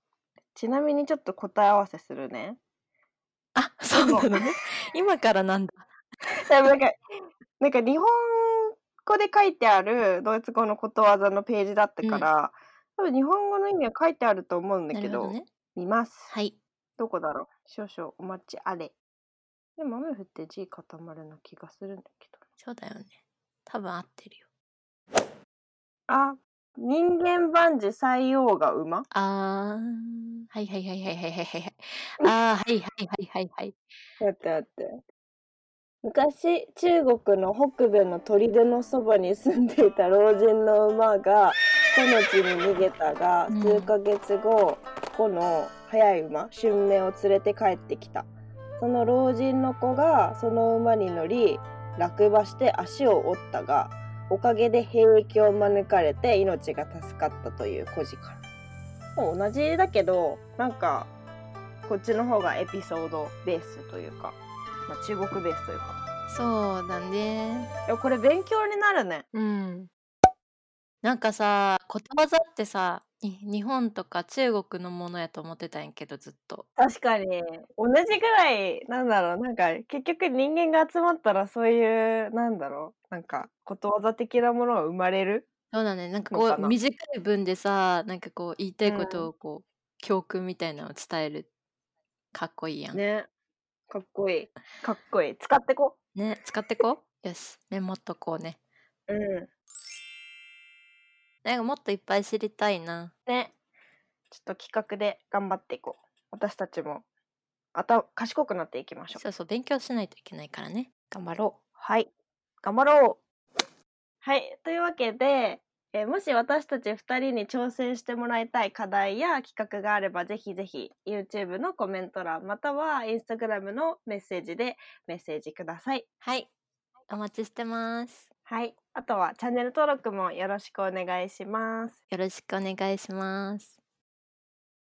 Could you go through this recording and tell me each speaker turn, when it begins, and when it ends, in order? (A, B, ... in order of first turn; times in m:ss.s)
0:00.6-0:02.6 A
0:03.6-0:05.9 B
0:03.9-0:04.4 A
0:06.4-0:07.0 A
0:07.6-0:16.3 A
0:12.0-0:12.3 B
0:14.9-0:15.5 B
0:16.3-0:16.6 B
0:17.0-0:18.9 A
0:19.8-0:22.4 A
0:22.6-0:24.4 B
0:26.1-0:29.1 A
0:29.1-0:33.8 B
0:34.2-0:34.9 A
0:36.0-0:48.3 A
0:43.5-0:43.9 B
0:48.8-0:58.4 A
0:59.2-1:01.1 A
1:01.8-1:04.4 A
1:04.9-1:06.0 A
1:06.3-1:07.7 B
1:07.9-1:09.3 A
1:09.3-1:09.9 B
1:11.0-1:16.7 B
1:16.8-1:25.5 A
1:25.7-1:31.5 B
1:26.3-1:26.8 A
1:28.8-1:29.3 A
1:32.3-1:33.0 B
1:32.9-1:33.3 A
1:33.9-1:36.0 A
1:36.2-1:38.6 B
1:39.1-1:39.5 A
1:41.4-1:43.1 B
1:43.3-1:43.5 A
1:44.3-1:47.0 A
1:47.8-1:49.2 A
1:49.1-1:51.6 B
1:51.8-1:52.1 A
1:52.6-1:53.2 A
1:54.2-2:06.0 A
2:06.2-2:06.5 B
2:07.1-2:08.3 B
2:08.5-2:12.0 A
2:12.1-2:13.8 B